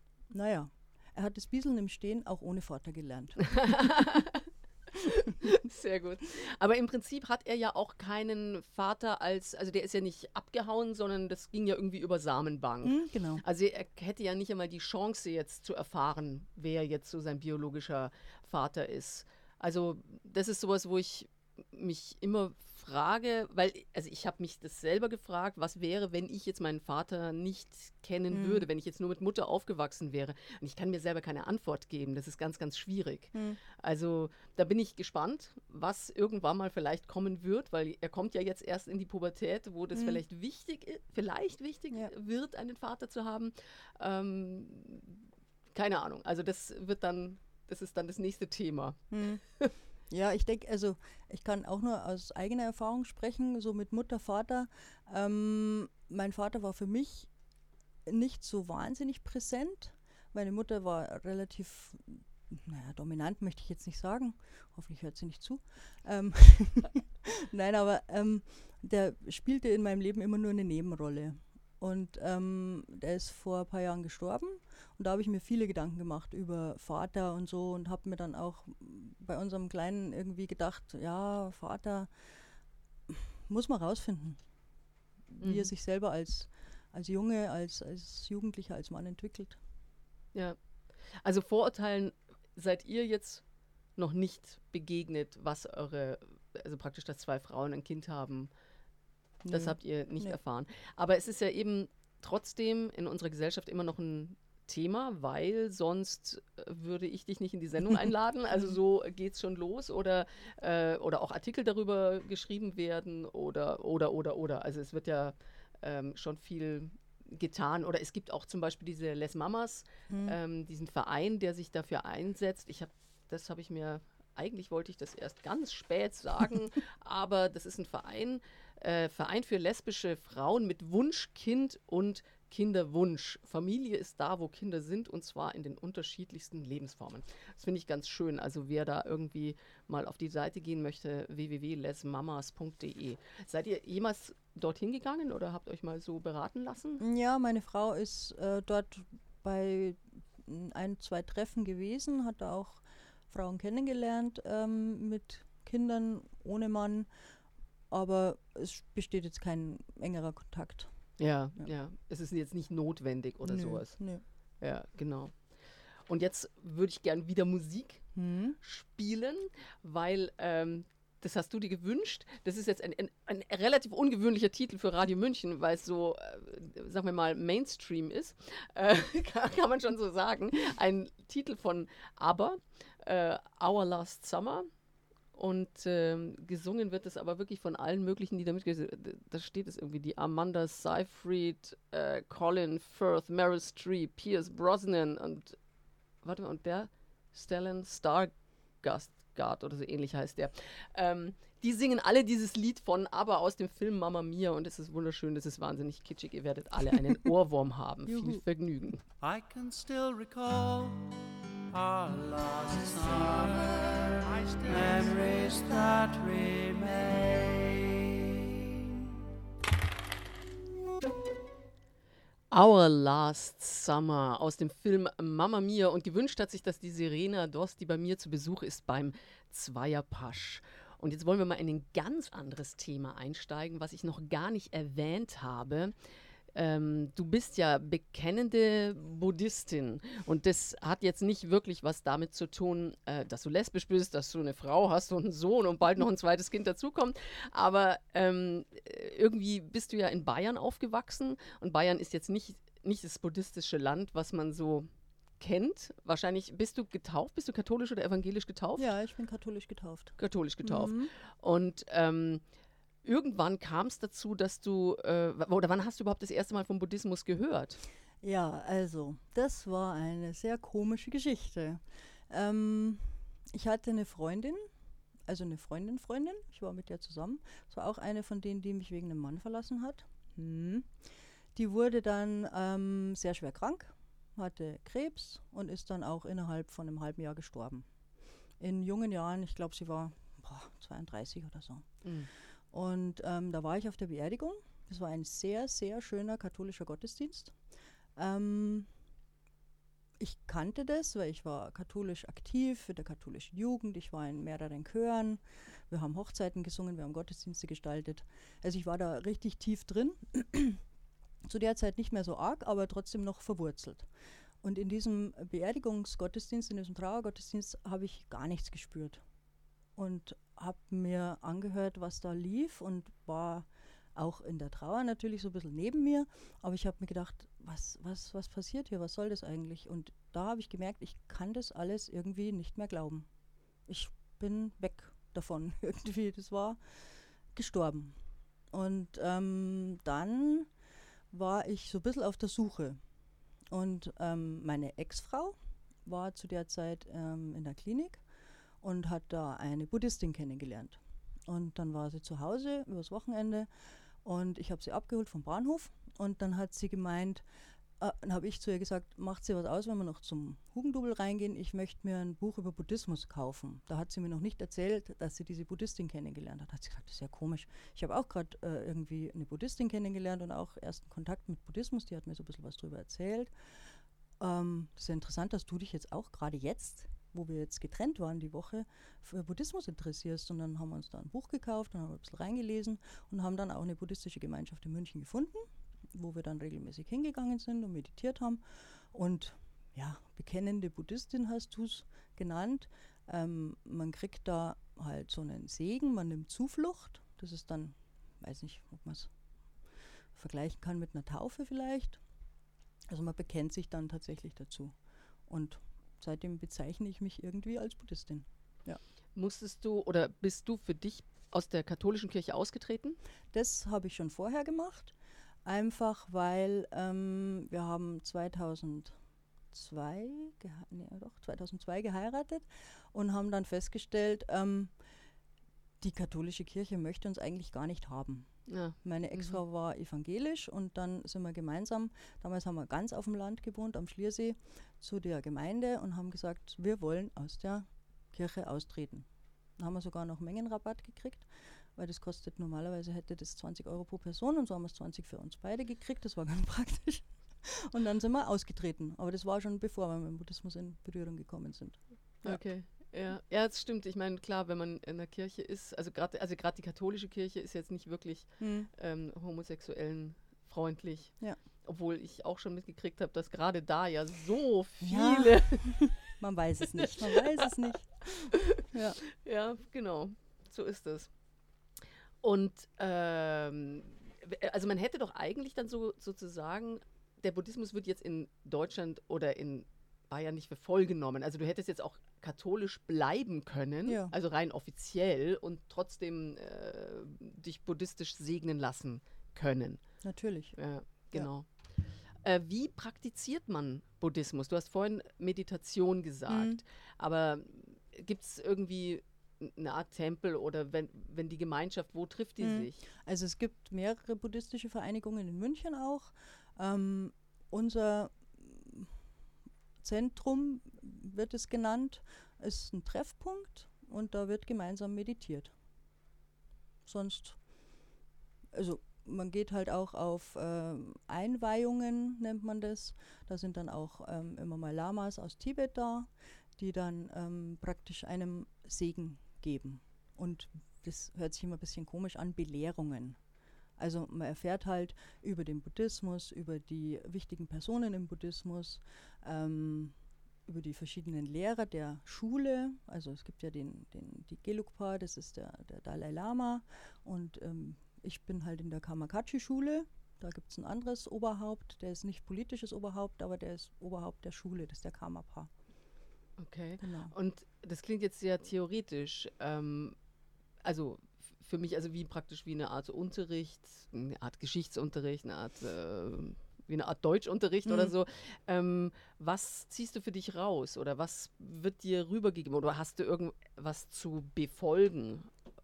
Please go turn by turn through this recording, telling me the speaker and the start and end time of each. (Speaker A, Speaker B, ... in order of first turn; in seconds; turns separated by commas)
Speaker A: 0.3-3.9, Speaker B: 3.4-49.7, Speaker A: 12.8-13.4, Speaker A: 28.3-28.7, Speaker A: 33.3-33.6, Speaker A: 39.9-40.2, Speaker A: 49.1-49.4, Speaker A: 50.1-57.3, Speaker A: 58.0-82.1, Speaker A: 83.1-84.4, Speaker A: 85.3-89.6, Speaker B: 85.4-85.7, Speaker B: 91.1-93.4, Speaker B: 94.0-98.5, Speaker A: 99.4-100.4, Speaker B: 99.5-147.0, Speaker A: 120.1-120.3, Speaker A: 147.0-157.1, Speaker A: 157.9-160.9, Speaker B: 161.2-164.0, Speaker A: 163.4-164.2, Speaker B: 164.6-165.4, Speaker B: 166.1-184.7, Speaker A: 168.1-168.6, Speaker B: 185.3-195.6, Speaker B: 196.2-209.0, Speaker A: 208.1-208.4, Speaker C: 209.2-218.6, Speaker B: 222.5-235.9, Speaker B: 236.5-258.9, Speaker A: 258.8-261.1, Speaker B: 260.2-262.4, Speaker B: 263.0-267.8, Speaker A: 268.2-274.6, Speaker A: 275.2-280.9, Speaker A: 281.5-287.9, Speaker A: 288.6-292.0, Speaker B: 292.0-292.3, Speaker A: 292.7-297.6, Speaker A: 298.1-298.9, Speaker A: 300.2-310.8, Speaker A: 311.4-314.1, Speaker A: 314.6-319.2, Speaker A: 319.9-333.3, Speaker A: 333.9-336.8, Speaker A: 337.5-338.2, Speaker A: 338.7-340.7, Speaker A: 341.3-343.0, Speaker A: 343.7-348.2, Speaker A: 348.8-353.7, Speaker A: 354.2-357.4, Speaker A: 358.0-373.5, Speaker A: 374.4-399.3, Speaker A: 400.3-402.2, Speaker A: 403.1-404.9, Speaker A: 405.5-409.0, Speaker B: 409.3-413.2, Speaker A: 413.5-419.1, Speaker A: 419.7-424.9, Speaker A: 426.0-452.6, Speaker B: 428.7-429.6, Speaker B: 452.4-466.2, Speaker A: 458.6-458.9, Speaker A: 465.0-469.2, Speaker B: 467.0-467.4, Speaker B: 468.5-468.8, Speaker B: 469.3-471.3, Speaker B: 472.4-490.1, Speaker A: 484.1-484.3, Speaker A: 490.2-490.8, Speaker B: 490.8-491.9, Speaker B: 492.4-503.0, Speaker A: 496.5-496.8, Speaker A: 502.6-509.1, Speaker A: 510.0-515.7, Speaker A: 517.0-517.6, Speaker A: 518.7-533.4, Speaker A: 534.0-540.1, Speaker A: 540.6-555.7, Speaker B: 556.6-560.1, Speaker A: 557.0-557.3, Speaker B: 560.8-575.5, Speaker A: 567.9-568.1